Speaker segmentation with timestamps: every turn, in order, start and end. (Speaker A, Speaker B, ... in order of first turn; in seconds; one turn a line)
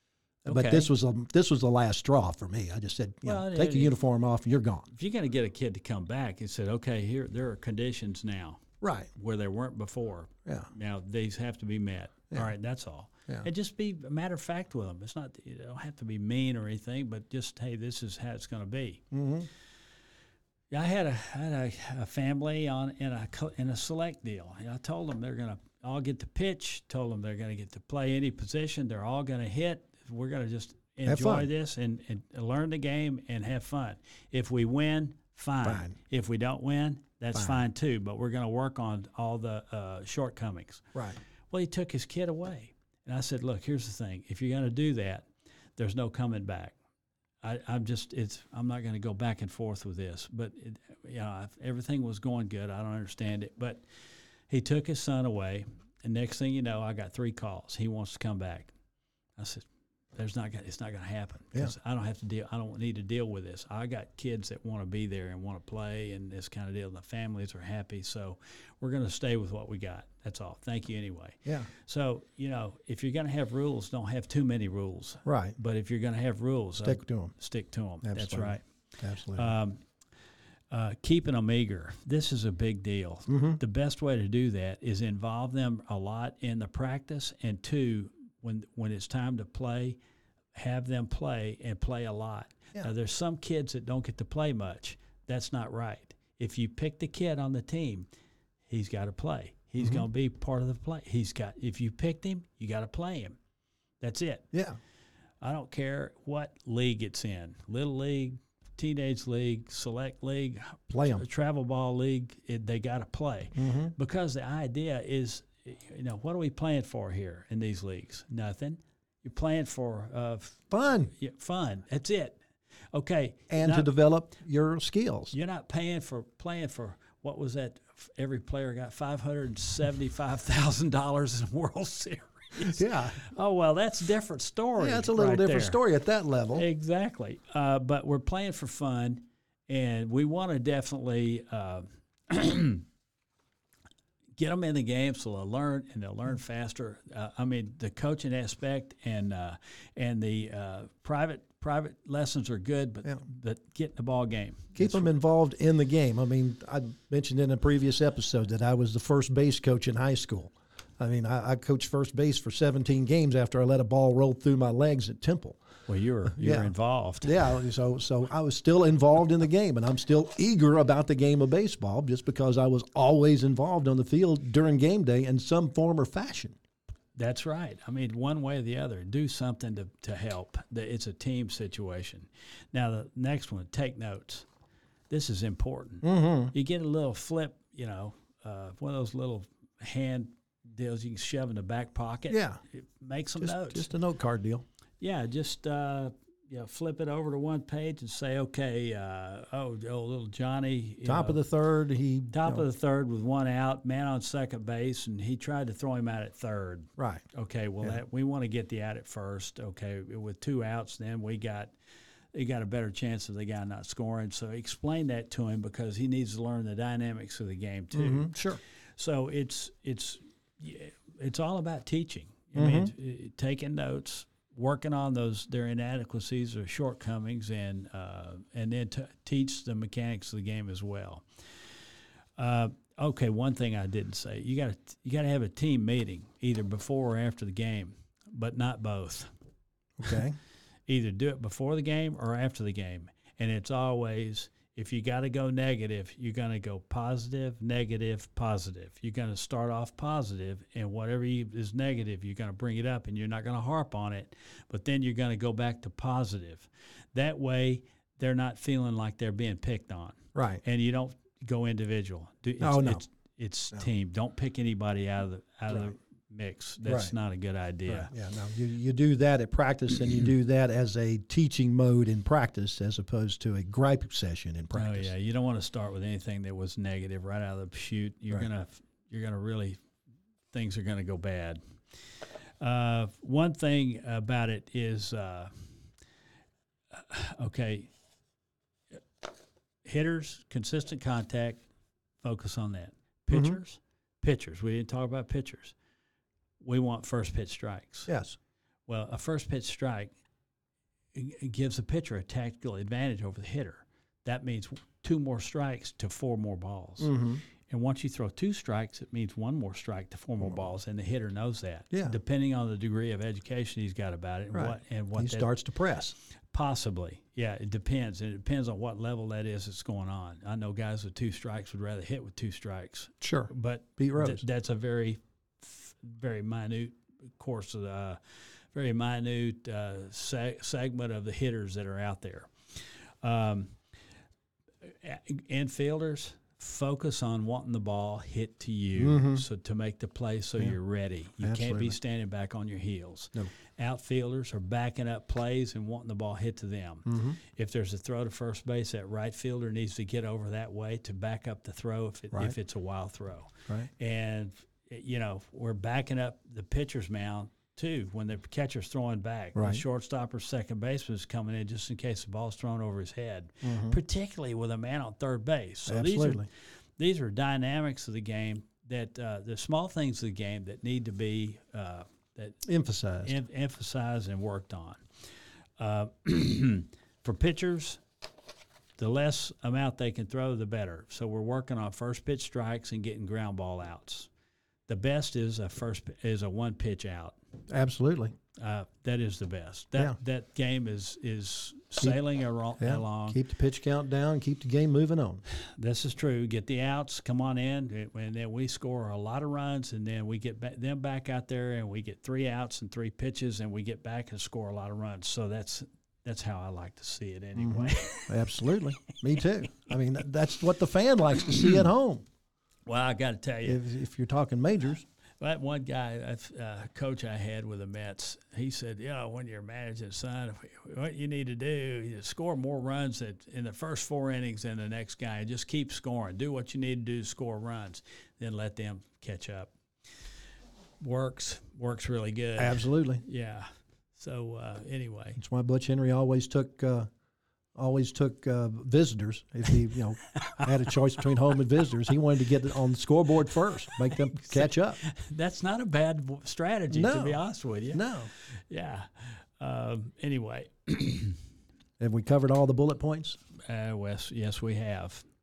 Speaker A: 0.5-0.9
Speaker B: 0.5-4.9
Speaker A: 3.2-4.0
Speaker A: 4.9-8.6
Speaker B: 8.8-9.1
Speaker A: 9.2-19.0
Speaker B: 19.1-19.5
Speaker A: 20.7-40.9
Speaker B: 31.1-31.5
Speaker B: 35.6-36.0
Speaker B: 37.3-37.6
Speaker B: 40.9-41.2
Speaker A: 41.5-46.8
Speaker A: 47.4-53.8
Speaker A: 54.5-58.7
Speaker A: 59.4-78.6
Speaker B: 75.2-75.6
Speaker B: 76.8-77.3
Speaker B: 78.0-79.5
Speaker A: 79.3-79.8
Speaker A: 80.7-90.0
Speaker B: 83.3-83.6
Speaker A: 90.5-98.1
Speaker A: 98.7-103.4
Speaker B: 99.8-100.1
Speaker A: 104.0-104.5
Speaker A: 105.4-122.4
Speaker B: 110.9-111.3
Speaker B: 113.6-113.9
Speaker B: 120.7-121.1
Speaker A: 122.9-123.9
Speaker B: 123.5-125.3
Speaker A: 125.3-135.8
Speaker B: 132.6-133.2
Speaker B: 134.8-136.7
Speaker A: 136.5-142.9
Speaker A: 144.4-155.1
Speaker B: 154.8-165.6
Speaker A: 165.9-167.4
Speaker B: 166.3-176.6
Speaker A: 177.2-184.5
Speaker A: 185.1-193.9
Speaker B: 186.0-186.5
Speaker B: 192.3-192.6
Speaker B: 193.4-194.7
Speaker A: 195.0-201.4
Speaker B: 201.0-202.7
Speaker A: 202.3-211.8
Speaker B: 207.0-207.2
Speaker A: 212.3-231.3
Speaker B: 217.9-218.6
Speaker B: 222.6-222.9
Speaker A: 232.4-239.3
Speaker B: 240.0-240.4
Speaker A: 240.9-268.1
Speaker B: 260.4-260.6
Speaker B: 262.6-263.0
Speaker B: 266.8-267.1
Speaker B: 267.9-275.1
Speaker A: 274.7-279.8
Speaker A: 280.5-281.6
Speaker A: 282.6-285.7
Speaker A: 286.9-287.9
Speaker A: 289.8-291.6
Speaker A: 292.2-295.8
Speaker B: 293.3-293.6
Speaker A: 296.6-298.1
Speaker B: 298.1-298.4
Speaker A: 298.9-300.1
Speaker A: 301.1-307.1
Speaker B: 307.0-307.4
Speaker A: 307.7-315.5
Speaker B: 311.9-312.2
Speaker B: 314.5-316.2
Speaker A: 316.5-332.5
Speaker B: 323.2-324.4
Speaker A: 333.2-333.8
Speaker A: 334.8-372.7
Speaker B: 339.0-339.4
Speaker B: 341.4-342.0
Speaker B: 347.1-347.4
Speaker B: 359.6-359.8
Speaker B: 363.6-364.0
Speaker B: 365.9-366.5
Speaker B: 372.6-373.4
Speaker A: 373.2-375.0
Speaker A: 375.8-378.0
Speaker A: 379.0-384.3
Speaker A: 384.9-387.4
Speaker B: 387.7-388.3
Speaker A: 388.6-393.4
Speaker B: 392.8-395.4
Speaker A: 395.6-408.4
Speaker B: 407.6-412.2
Speaker A: 412.9-413.8
Speaker B: 413.6-415.0
Speaker A: 415.4-429.7
Speaker A: 431.0-435.4
Speaker B: 432.6-433.2
Speaker B: 435.4-437.1
Speaker B: 437.8-445.0
Speaker A: 444.4-451.4
Speaker B: 446.9-448.3
Speaker B: 452.0-453.4
Speaker A: 453.6-455.2